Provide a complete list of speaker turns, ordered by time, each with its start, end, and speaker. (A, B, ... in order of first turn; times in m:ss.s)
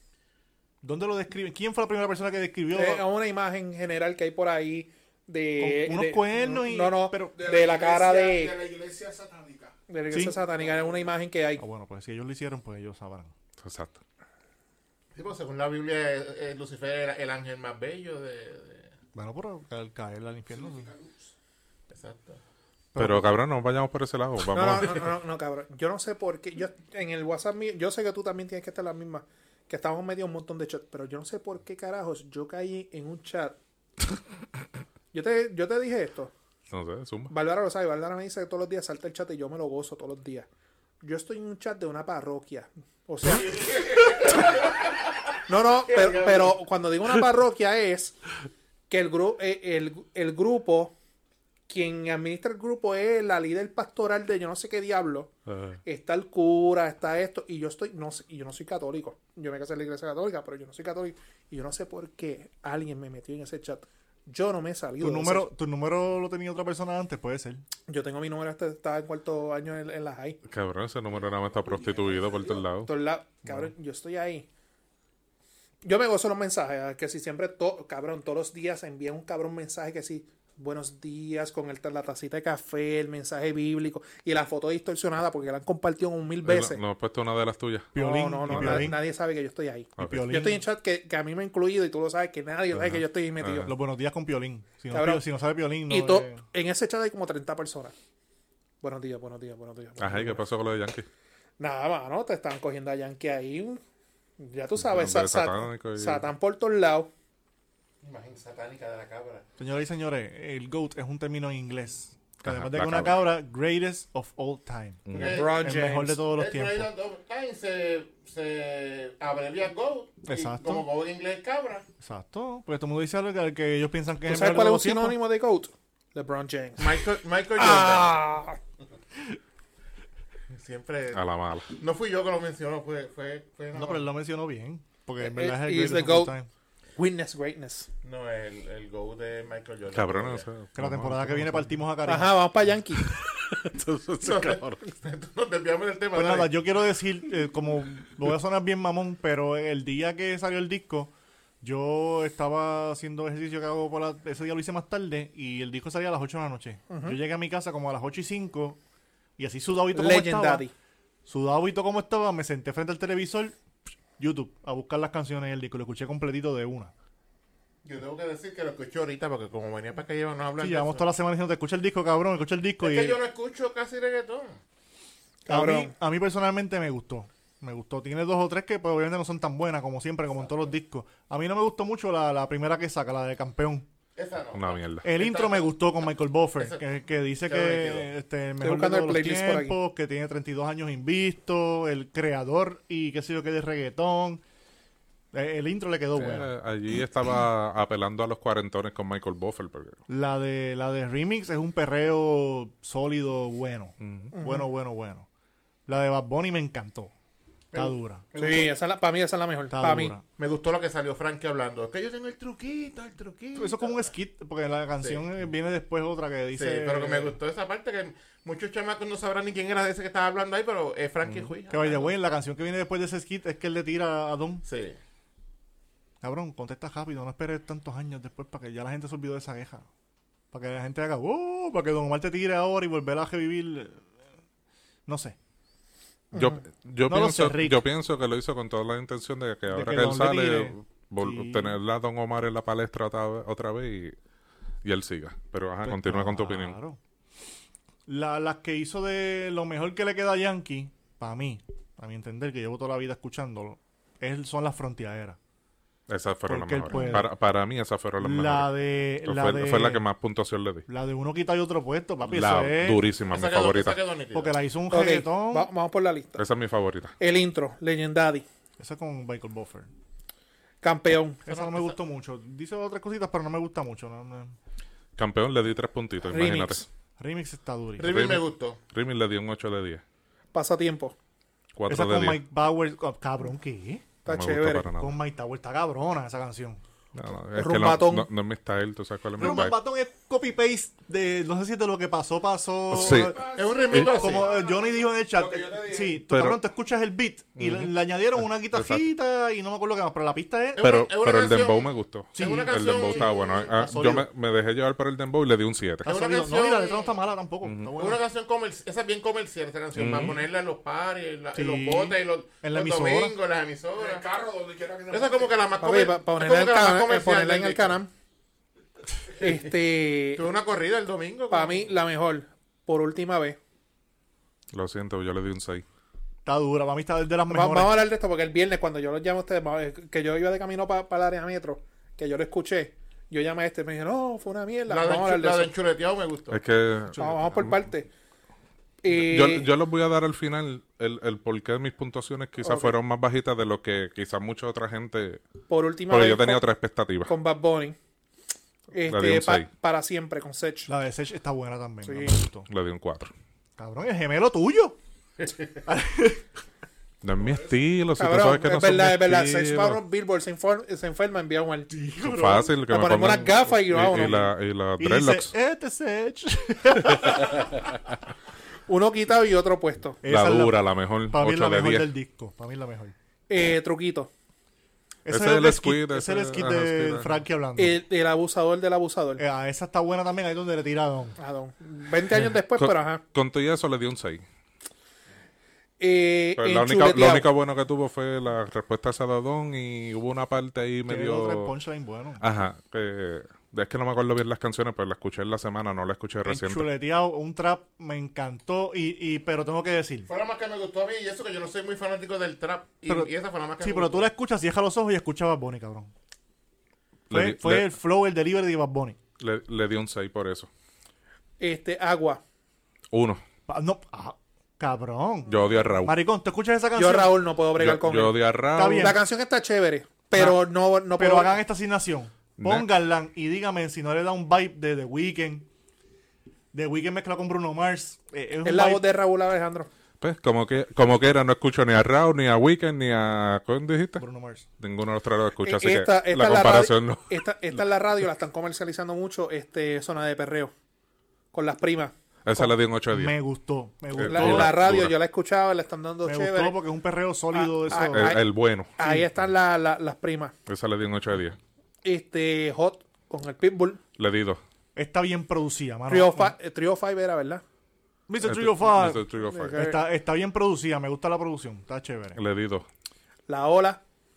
0:00.8-0:03.0 A
0:02.7-0:08.6 B
0:05.6-0:07.3 A
0:07.3-0:09.7 C
0:09.9-0:11.6 B
0:10.1-0:10.4 A
0:10.6-0:11.1 C
0:11.6-0:13.3 A
0:13.6-0:14.0 D
0:15.1-0:18.9 E
0:19.1-0:20.9 A
0:20.5-0:21.3 C
0:21.9-0:22.4 E
0:22.9-0:23.3 A
0:23.0-0:25.1 D
0:24.5-0:33.6 B
0:35.1-0:36.3 B
0:36.7-0:37.3 D
0:37.3-0:40.5 B
0:41.0-0:43.7 B
0:43.6-0:44.6 E
0:45.5-0:48.2 B
0:45.9-0:46.6 E
0:48.9-0:50.9 B
0:51.7-0:55.3 B
0:55.5-0:55.8 D
0:55.8-1:05.5 B
1:05.0-1:07.6 A
1:07.9-1:10.4 B
1:10.4-1:12.9 D
1:12.9-1:14.5 B
1:15.8-1:26.8 B
1:26.4-1:27.9 D
1:28.0-1:29.0 A
1:28.0-1:33.7 B
1:28.5-1:28.9 D
1:30.0-1:30.3 D
1:30.0-1:30.6 A
1:32.7-1:33.7 D
1:33.6-1:36.4 A
1:34.9-1:35.2 B
1:35.9-1:37.9 B
1:38.8-1:40.4 B
1:40.0-1:41.1 D
1:41.6-1:43.8 B
1:44.4-1:47.1 B
1:44.8-1:46.3 D
1:48.0-1:49.4 E
1:49.6-1:56.9 A
1:52.4-1:53.3 D
1:55.0-1:55.4 D
1:55.1-1:55.7 E
1:55.2-1:56.2 B
1:56.2-2:01.9 E
2:00.2-2:00.9 A
2:02.0-2:05.2 A
2:04.3-2:07.0 B
2:06.8-2:08.2 E
2:07.6-2:08.6 B
2:10.5-2:11.2 E
2:11.1-2:11.7 D
2:11.7-2:14.0 E
2:13.7-2:16.5 A
2:15.2-2:16.3 B
2:17.0-2:17.9 B
2:18.0-2:20.4 E
2:19.9-2:21.7 D
2:20.7-2:22.5 A
2:22.0-2:23.1 B
2:23.0-2:24.8 D
2:24.2-2:26.5 E
2:26.1-2:38.8 A
2:36.9-2:37.2 B
2:39.4-2:40.6 A
2:39.9-2:40.7 B
2:41.3-2:43.6 A
2:44.2-2:46.9 A
2:47.8-2:51.1 E
2:50.6-2:53.2 A
2:52.8-2:54.6 E
2:55.4-2:55.9 B
2:55.5-3:03.9 A
3:04.2-3:05.7 E
3:04.5-3:05.1 D
3:05.0-3:14.4 A
3:06.6-3:06.8 E
3:07.4-3:08.1 E
3:08.6-3:09.7 B
3:15.3-3:16.5 A
3:16.2-3:20.0 D
3:20.1-3:25.3 A
3:24.0-3:24.3 D
3:24.3-3:24.7 B
3:25.9-3:27.1 A
3:27.7-3:28.3 A
3:27.7-3:28.7 E
3:28.4-3:30.1 B
3:29.7-3:30.2 A
3:30.4-3:34.1 E
3:33.6-3:37.4 A
3:36.5-3:42.1 E
3:41.7-3:44.6 A
3:44.6-3:45.0 E
3:46.2-3:49.9 A
3:50.5-3:54.0 A
3:55.1-3:55.4 A
3:56.3-3:56.6 B
3:56.3-4:04.1 D
3:57.1-3:57.8 A
3:59.7-4:01.8 A
4:04.8-4:06.8 D
4:05.8-4:07.0 A
4:08.1-4:15.4 A
4:16.1-4:18.7 D
4:16.5-4:17.3 A
4:16.9-4:17.2 B
4:18.2-4:20.0 A
4:19.2-4:20.9 D
4:20.9-4:23.1 A
4:22.2-4:24.0 D
4:23.3-4:24.5 E
4:24.3-4:25.7 A
4:24.9-4:26.4 B
4:26.4-4:27.1 D
4:27.2-4:28.4 B
4:28.8-4:29.9 A
4:30.8-4:31.5 B
4:31.4-4:34.6 A
4:31.5-4:31.9 E
4:35.2-4:36.9 D
4:36.3-4:36.8 B
4:37.2-4:38.3 A
4:38.0-4:38.8 E
4:38.1-4:40.0 D
4:40.5-4:41.1 B
4:41.7-4:42.4 D
4:41.9-4:44.2 A
4:44.2-4:44.9 B
4:44.3-4:45.2 D
4:45.0-4:46.8 A
4:47.1-4:49.8 D
4:47.6-4:48.3 B
4:49.4-4:53.4 A
4:52.9-4:53.3 D
4:53.0-4:56.2 C
4:53.0-4:54.7 E
4:54.0-5:00.8 A
4:56.3-4:56.6 D
4:57.6-4:57.9 D
4:58.5-4:59.0 D
5:00.8-5:03.6 E
5:00.8-5:06.0 D
5:02.3-5:04.3 A
5:06.0-5:08.2 A
5:06.0-5:07.2 E
5:07.6-5:07.9 D
5:08.0-5:14.3 E
5:10.0-5:10.3 A
5:10.0-5:10.4 D
5:11.5-5:13.4 A
5:14.0-5:15.7 C
5:15.1-5:18.0 E
5:15.8-5:18.1 B
5:19.4-5:19.7 E
5:19.4-5:20.4 B
5:20.3-5:22.0 E
5:21.5-5:23.6 B
5:24.7-5:25.8 D
5:26.4-5:28.0 A
5:27.5-5:35.7 B
5:34.9-5:36.6 E
5:36.5-5:37.7 D
5:37.1-5:37.8 A
5:37.2-5:38.1 B
5:39.0-5:39.7 B
5:39.1-5:45.4 D
5:42.6-5:43.0 B
5:45.7-5:46.6 B
5:46.1-5:47.3 D
5:47.3-5:48.0 B
5:48.9-5:50.9 B
5:49.1-5:49.7 D
5:50.9-5:52.7 A
5:52.0-5:52.4 B
5:52.7-5:53.3 D
5:53.8-5:55.0 A
5:55.8-5:56.4 A
5:57.2-6:00.0 D
5:58.2-6:01.9 B
6:01.9-6:02.7 A
6:02.2-6:05.5 D
6:02.9-6:04.5 B
6:05.0-6:07.7 A
6:08.9-6:10.2 B
6:10.2-6:13.1 A
6:10.3-6:12.1 D
6:13.5-6:14.3 B
6:15.3-6:18.0 A
6:15.3-6:17.4 D
6:17.8-6:19.4 B
6:19.4-6:21.4 A
6:21.4-6:23.2 B
6:22.7-6:24.4 D
6:26.0-6:27.5 B
6:26.6-6:31.7 D
6:31.1-6:32.4 A
6:32.4-6:36.9 D
6:36.4-6:40.3 A
6:40.3-6:44.3 E
6:43.1-6:46.1 A
6:47.3-6:47.9 D
6:47.3-6:49.2 A
6:49.4-6:50.7 D
6:51.6-6:52.4 B
6:53.1-6:53.4 D
6:53.7-6:57.4 A
6:55.5-6:56.1 D
6:57.0-6:58.4 B
6:57.8-6:59.2 D
6:58.7-6:59.2 A
6:59.0-7:01.6 B
7:01.1-7:05.7 A
7:02.6-7:02.9 D
7:06.7-7:09.0 A
7:08.6-7:09.9 B
7:10.2-7:14.2 D
7:14.2-7:14.7 A
7:14.8-7:17.3 D
7:15.6-7:20.7 B
7:21.5-7:22.1 B
7:22.4-7:23.4 D
7:22.6-7:24.8 A
7:24.1-7:25.1 D
7:24.2-7:26.8 B
7:26.2-7:28.4 A
7:27.5-7:30.5 B
7:27.9-7:28.9 D
7:30.7-7:31.6 D
7:32.0-7:34.0 B
7:34.2-7:34.6 D
7:35.0-7:36.6 A
7:36.1-7:37.6 B
7:38.3-7:42.4 A
7:38.4-7:39.8 D
7:39.4-7:40.0 B
7:42.4-7:42.9 D
7:43.5-7:44.0 B